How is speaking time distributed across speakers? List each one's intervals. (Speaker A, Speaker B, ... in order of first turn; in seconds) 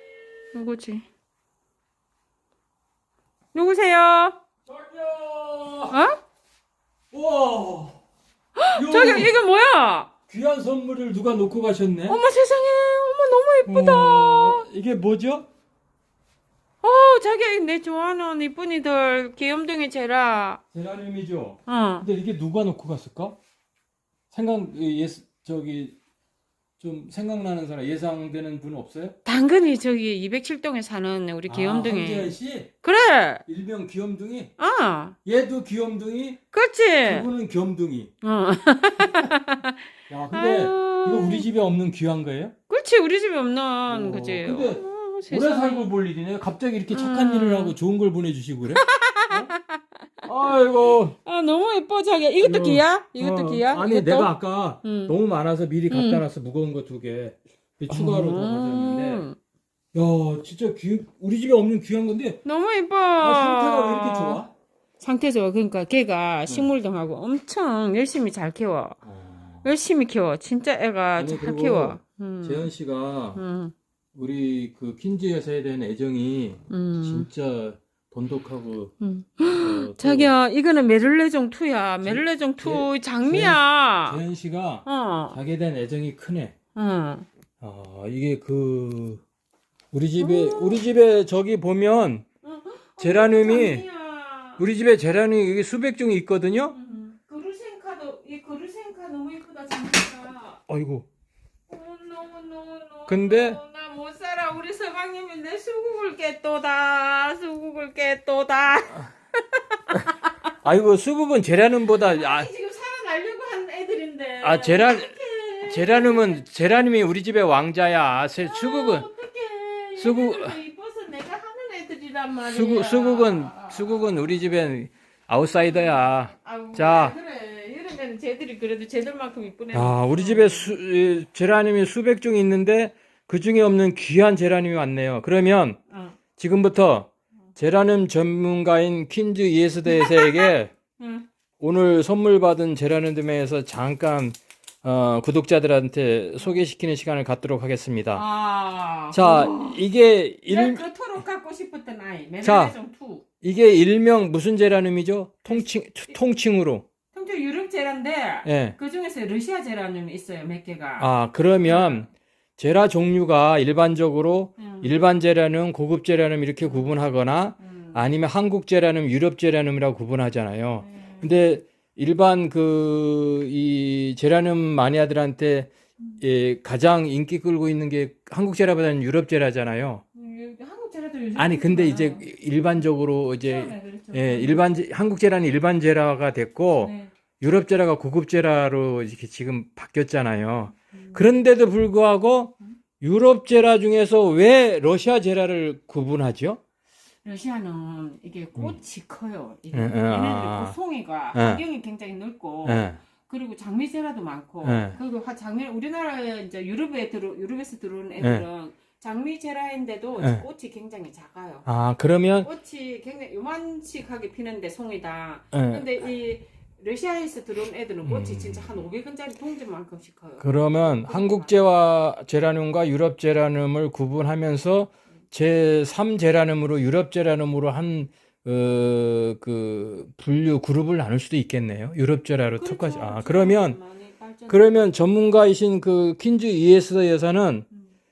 Speaker A: 0.5-1.1, 3.5-4.4, 5.9-6.2, 8.6-10.1, 12.1-14.6, 16.8-20.6, 21.7-22.1, 29.2-33.4, 34.6-35.2, 36.5-37.3, 38.2-41.5, 42.7-45.9, 46.9-47.7, 48.7-50.2, 51.2-54.3, 54.8-55.1, 55.9-56.2, 57.9-59.4, 62.4-64.4, 65.0-69.0, 69.6-72.7, 73.3-73.7, 76.7-77.3, 79.0-84.2, 84.8-85.4, 86.8-87.2, 90.2-90.8, 92.4-94.6, 96.7-100.6, 101.7-110.3, 111.9-116.4, 118.4-124.3, 125.6-130.7, 135.9-136.2, 139.9-141.3, 148.1-149.8, 150.5-153.2, 157.1-161.1, 161.6-162.1, 164.6-164.9, 166.6-166.9, 167.6-168.0, 170.8-171.4, 180.2-182.3, 183.4-184.7, 186.8-187.1, 190.9-191.2, 197.2-211.7, 212.4-221.6, 232.6-234.8
Speaker B: 4.7-6.0, 7.1-8.0, 8.7-9.3, 10.3-12.2, 13.7-15.5, 20.7-23.4, 24.3-26.0, 26.8-29.2, 31.5-32.7, 33.5-34.5, 35.2-36.4, 37.0-38.1, 40.1-42.5, 43.9-49.5, 50.2-51.2, 52.4-59.2, 59.9-62.4, 63.2-64.5, 69.0-69.7, 71.2-73.4, 74.1-78.9, 79.6-80.3, 82.0-86.5, 87.6-89.2, 89.9-92.2, 93.0-93.8, 94.6-96.8, 100.7-101.0, 103.1-103.6, 110.6-112.5, 114.4-119.1, 120.0-120.5, 122.4-127.2, 129.7-135.8, 136.4-140.7, 141.6-148.2, 149.1-150.8, 152.4-152.8, 153.4-156.9, 158.4-158.8, 161.0-175.7, 176.2-180.0, 181.4-196.6, 199.7-200.8, 201.3-201.6, 202.6-203.0, 204.6-205.0, 208.2-208.4, 210.2-210.4, 211.7-212.5, 215.5-215.9, 218.1-218.7, 220.4-233.8, 234.5-237.7